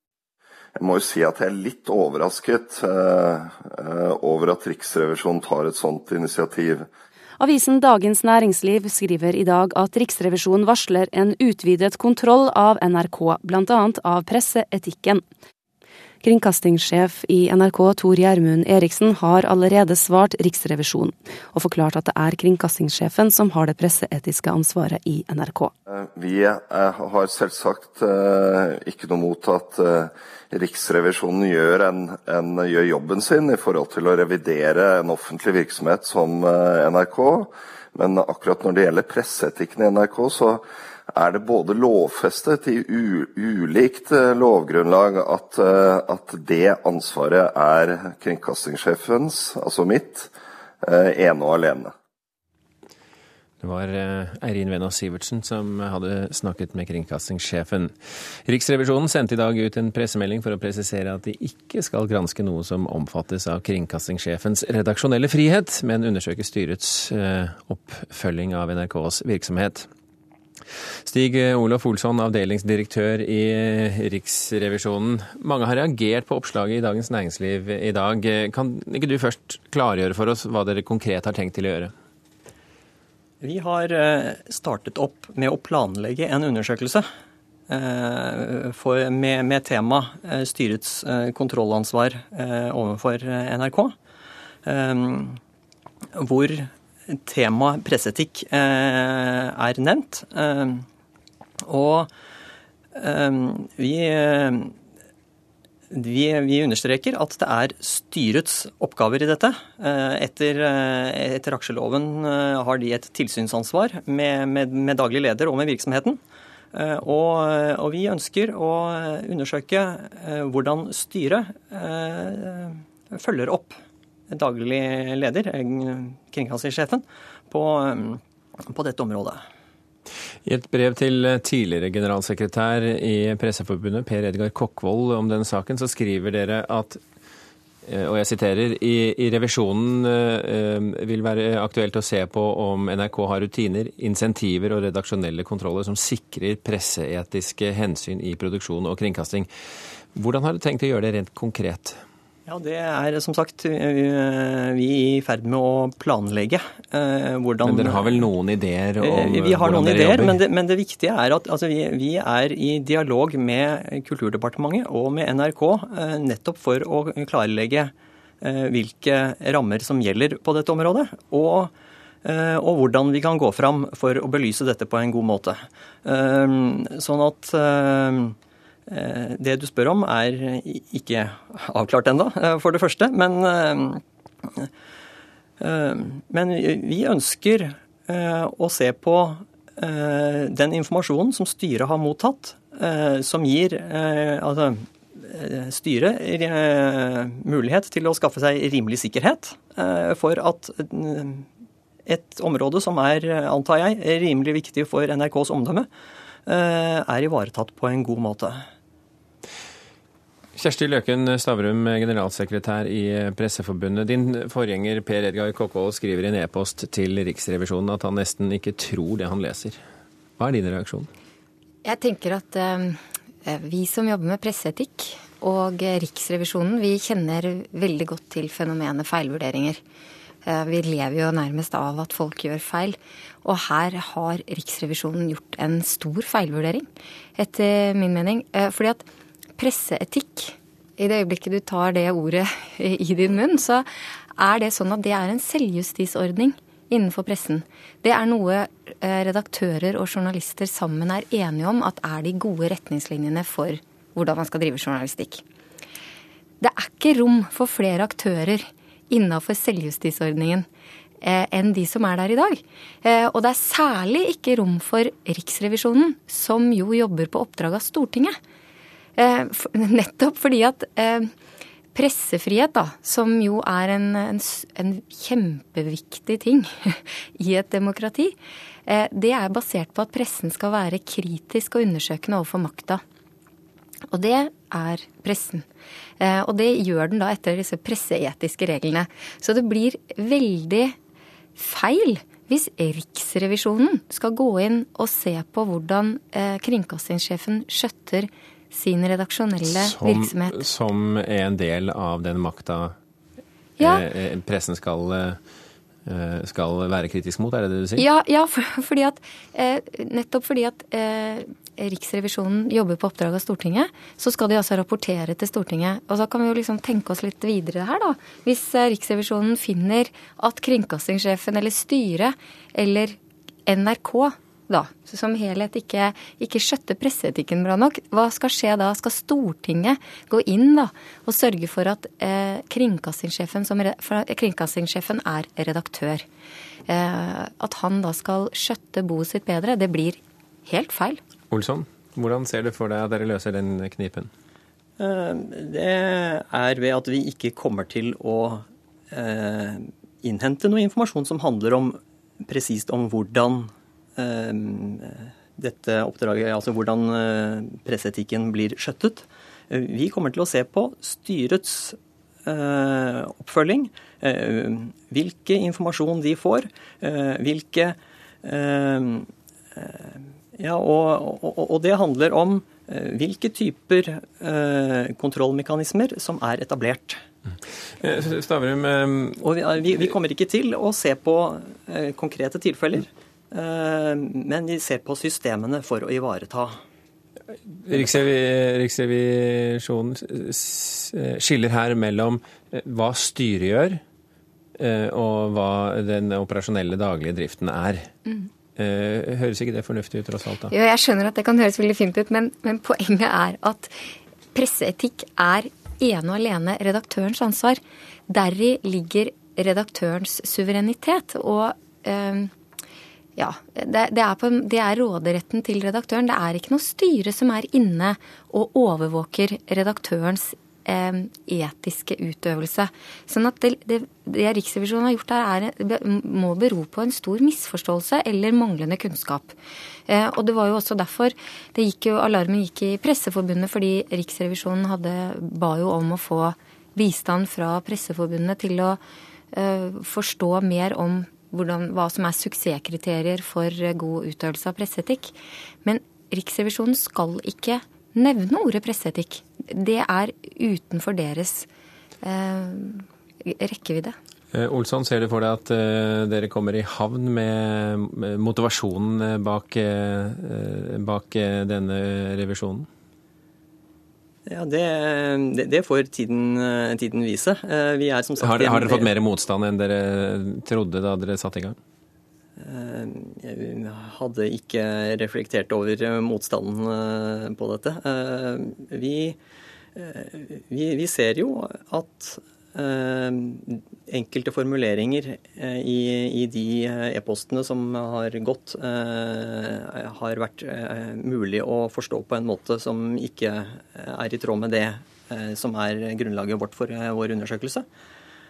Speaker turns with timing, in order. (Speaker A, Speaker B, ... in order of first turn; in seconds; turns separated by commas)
Speaker A: 0.8-6.9, Speaker B: 7.4-15.2, Speaker B: 16.2-25.7, Speaker A: 25.9-50.3, Speaker A: 50.8-51.9, Speaker C: 53.6-57.9, Speaker C: 58.5-69.9, Speaker C: 71.0-81.9, Speaker D: 83.4-87.0, Speaker D: 87.7-93.9, Speaker D: 94.7-95.4, Speaker D: 96.1-100.8, Speaker D: 101.6-102.1, Speaker D: 102.9-104.7, Speaker D: 105.9-116.2, Speaker D: 116.7-123.7, Speaker D: 124.3-129.4, Speaker C: 130.4-137.0, Speaker C: 137.8-149.5, Speaker C: 150.1-152.0, Speaker D: 152.5-158.3, Speaker C: 157.6-160.3, Speaker D: 159.0-171.7, Speaker D: 172.2-178.3, Speaker D: 178.9-184.7, Speaker D: 185.6-201.4, Speaker D: 202.1-205.9, Speaker D: 206.4-208.6, Speaker C: 210.5-219.8, Speaker C: 220.4-221.1, Speaker E: 221.8-229.8, Speaker E: 230.4-239.0, Speaker E: 239.6-243.8, Speaker E: 244.4-255.4, Speaker E: 256.6-260.6, Speaker E: 261.2-268.3, Speaker E: 269.2-271.3, Speaker E: 271.9-278.4, Speaker E: 278.9-283.0, Speaker E: 284.1-285.6, Speaker E: 286.2-290.9, Speaker E: 291.6-300.6, Speaker C: 299.7-302.9, Speaker E: 303.8-304.0, Speaker C: 303.8-305.4, Speaker C: 306.1-308.1, Speaker E: 308.0-336.2, Speaker E: 336.9-341.2, Speaker C: 341.5-344.3, Speaker D: 345.0-377.2, Speaker C: 378.0-379.4, Speaker D: 379.4-386.8, Speaker C: 387.7-394.0, Speaker C: 394.8-398.1, Speaker C: 398.8-400.7, Speaker E: 400.7-403.9, Speaker E: 404.5-412.5, Speaker E: 413.4-429.5, Speaker E: 430.1-439.0, Speaker E: 439.5-451.7, Speaker E: 452.2-454.1, Speaker C: 454.5-462.9, Speaker D: 464.4-469.1, Speaker C: 468.4-471.8, Speaker D: 472.6-479.4, Speaker D: 479.9-497.8